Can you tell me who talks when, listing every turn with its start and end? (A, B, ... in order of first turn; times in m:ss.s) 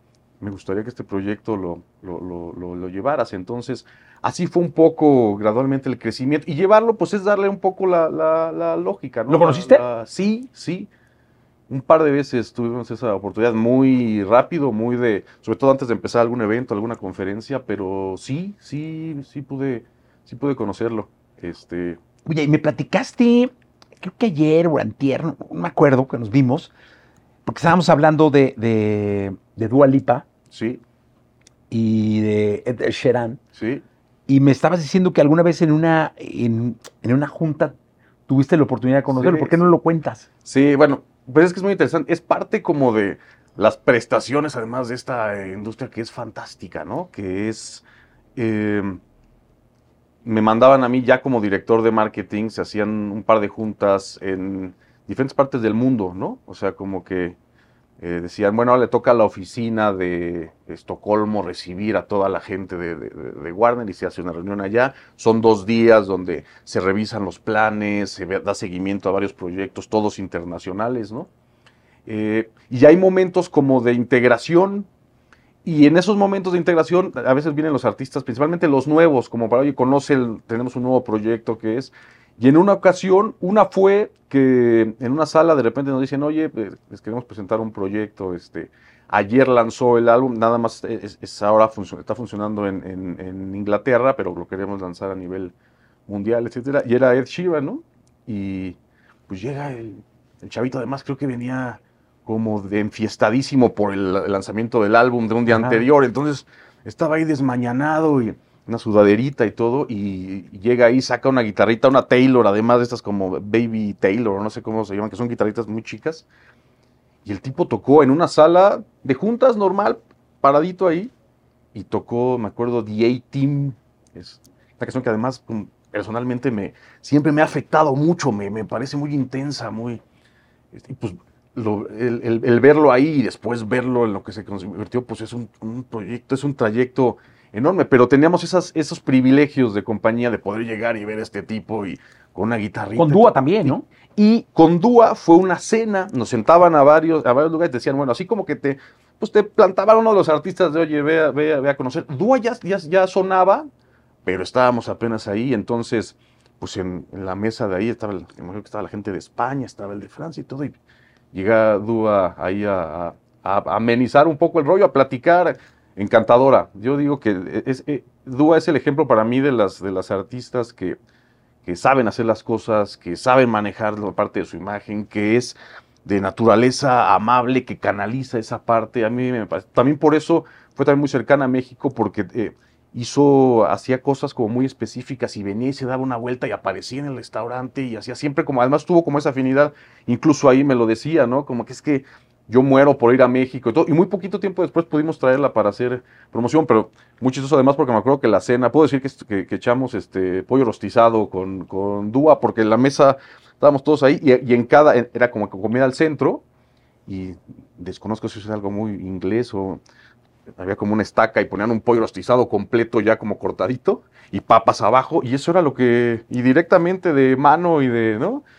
0:00.4-0:10.9 A
0:09.3-0:09.8 B
0:11.7-0:22.0 A
0:22.2-0:26.7 B
0:27.4-0:30.2 B
0:30.5-0:30.8 A
0:31.7-0:33.4 B
0:33.5-0:33.8 A
0:34.3-0:37.7 B
0:38.3-0:40.3 B
0:39.1-0:39.7 A
0:40.4-0:47.8 A
0:48.4-0:49.0 A
0:50.2-0:57.4 A
0:58.0-1:11.3 A
1:12.0-1:14.9 A
1:15.6-1:35.5 A
1:36.1-1:56.3 A
1:45.5-1:45.8 B
1:57.2-2:01.1 A
2:01.7-2:10.0 A
2:10.7-2:33.6 A
2:23.0-2:23.8 B
2:34.2-2:40.8 A
2:41.3-2:51.0 A
2:51.6-3:26.4 A
3:27.0-3:29.8 A
3:30.5-3:38.4 A